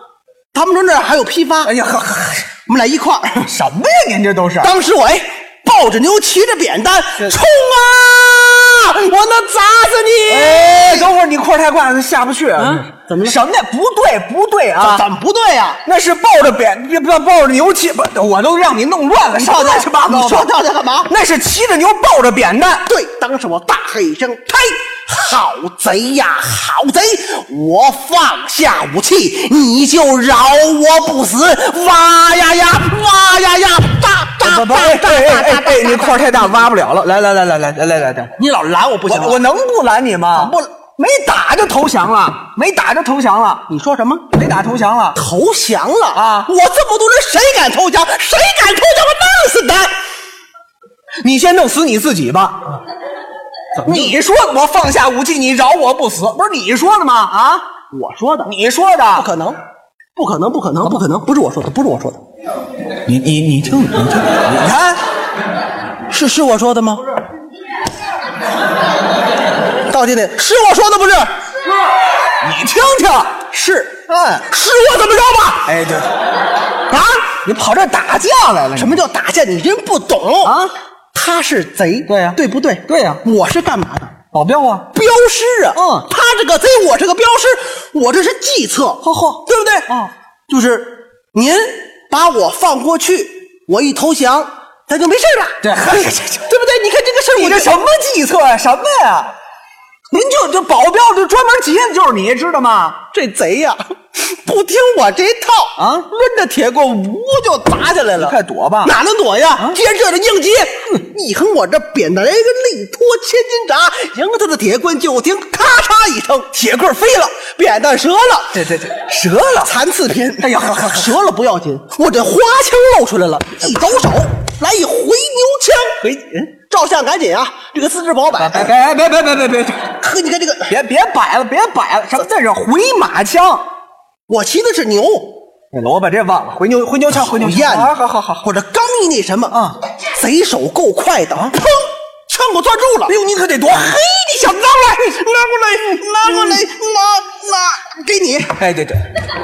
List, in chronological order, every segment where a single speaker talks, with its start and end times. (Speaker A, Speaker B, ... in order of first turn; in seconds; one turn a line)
Speaker A: 0.5-1.7
Speaker B: 1.6-2.5
Speaker A: 2.6-3.5
Speaker B: 3.5-4.7
Speaker A: 4.6-11.1
Speaker B: 10.3-15.0
Speaker A: 12.6-13.4
Speaker A: 14.8-15.8
Speaker B: 15.8-20.5
Speaker A: 19.3-21.1
Speaker B: 21.1-22.9
Speaker A: 22.8-36.6
Speaker B: 34.4-38.3
Speaker A: 38.4-39.4
Speaker B: 39.1-43.7
Speaker A: 40.3-40.7
Speaker A: 43.7-44.3
Speaker B: 44.3-45.2
Speaker A: 45.1-49.9
Speaker B: 46.1-46.5
Speaker B: 51.2-52.8
Speaker A: 53.8-54.1
Speaker B: 53.8-57.6
Speaker A: 57.9-58.5
Speaker B: 58.4-59.3
Speaker A: 59.1-59.6
Speaker A: 60.1-62.2
Speaker B: 63.0-65.0
Speaker A: 66.1-67.1
Speaker A: 69.9-71.3
Speaker B: 72.4-73.4
Speaker A: 73.4-75.7
Speaker B: 74.1-74.4
Speaker B: 75.7-76.1
Speaker A: 76.9-77.3
Speaker B: 77.4-79.0
Speaker A: 78.8-80.6
Speaker B: 80.4-80.7
Speaker A: 81.1-84.2
Speaker B: 82.1-83.2
Speaker B: 84.3-84.9
Speaker A: 84.9-89.9
Speaker B: 85.7-86.1
Speaker B: 89.0-90.1
Speaker A: 90.5-97.7
Speaker B: 95.6-96.5
Speaker B: 97.3-99.3
Speaker B: 100.1-103.0
Speaker A: 103.1-116.5
Speaker B: 105.8-106.1
Speaker B: 108.2-109.0
Speaker B: 116.5-117.4
Speaker A: 117.4-118.6
Speaker B: 118.5-119.7
Speaker A: 119.6-126.0
Speaker B: 120.4-121.2
Speaker B: 126.0-126.5
Speaker A: 126.5-128.7
Speaker B: 128.4-129.9
Speaker A: 129.9-130.7
Speaker B: 130.7-133.6
Speaker A: 134.3-135.4
Speaker B: 135.7-138.5
Speaker A: 137.1-139.6
Speaker B: 139.5-139.8
Speaker A: 140.1-143.2
Speaker B: 143.1-145.0
Speaker A: 144.9-148.6
Speaker B: 146.2-146.6
Speaker B: 148.6-149.0